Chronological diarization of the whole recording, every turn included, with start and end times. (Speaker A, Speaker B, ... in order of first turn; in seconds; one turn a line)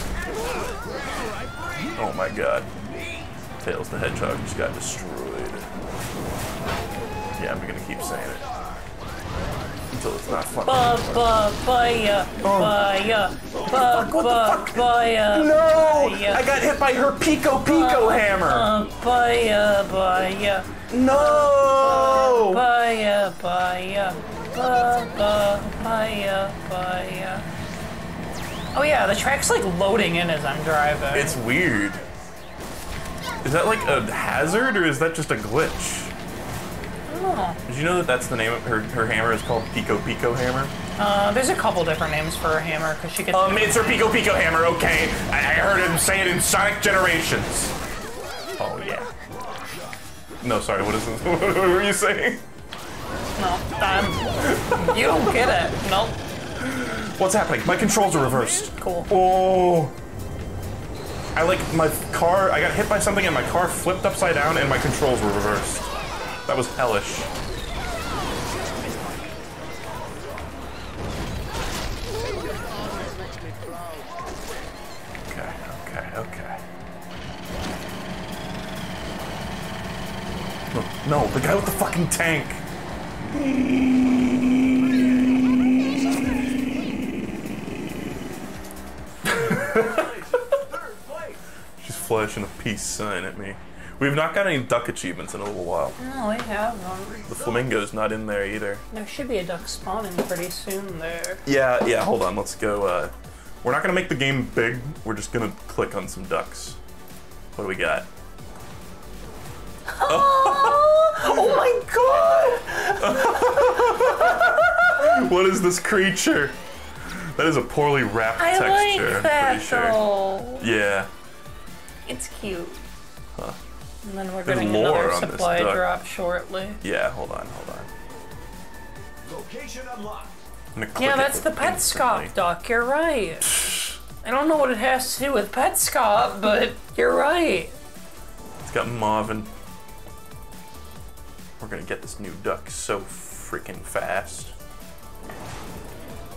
Speaker A: 0.2-2.1
Speaker B: 2.0-2.7
Speaker A: 2.9-3.3
Speaker B: 3.6-5.7
Speaker B: 7.4-8.4
Speaker A: 8.4-8.8
Speaker B: 9.9-11.3
Speaker C: 10.6-16.4
Speaker B: 12.4-12.8
Speaker B: 13.7-18.7
Speaker C: 17.6-27.5
Speaker B: 20.9-22.7
Speaker C: 28.7-31.4
Speaker B: 31.1-32.0
Speaker B: 33.4-36.1
Speaker C: 37.1-37.6
Speaker B: 37.7-40.7
Speaker C: 41.0-44.1
Speaker B: 43.3-47.7
Speaker B: 48.6-49.1
Speaker A: 49.2-50.0
Speaker B: 50.4-52.4
Speaker C: 53.4-56.2
Speaker A: 53.8-54.3
Speaker B: 54.5-55.4
Speaker B: 56.6-59.9
Speaker C: 58.0-59.1
Speaker B: 61.4-65.9
Speaker B: 66.5-67.3
Speaker A: 72.3-74.5
Speaker B: 75.3-76.6
Speaker B: 80.7-82.6
Speaker B: 83.3-84.8
Speaker B: 89.2-90.2
Speaker A: 89.3-91.4
Speaker B: 91.8-96.0
Speaker C: 96.0-97.2
Speaker A: 97.1-97.7
Speaker B: 97.3-98.8
Speaker C: 98.9-101.4
Speaker B: 101.5-106.8
Speaker B: 107.5-108.1
Speaker C: 109.9-114.2
Speaker B: 110.1-111.6
Speaker B: 113.0-120.0
Speaker C: 118.4-120.7
Speaker B: 120.6-121.1
Speaker C: 122.1-122.8
Speaker C: 124.0-126.8
Speaker B: 124.5-125.9
Speaker B: 126.8-127.9
Speaker A: 129.2-130.4
Speaker B: 130.8-132.4
Speaker C: 131.0-133.7
Speaker B: 133.5-134.0
Speaker C: 134.2-137.7
Speaker B: 138.6-139.5
Speaker B: 141.6-144.5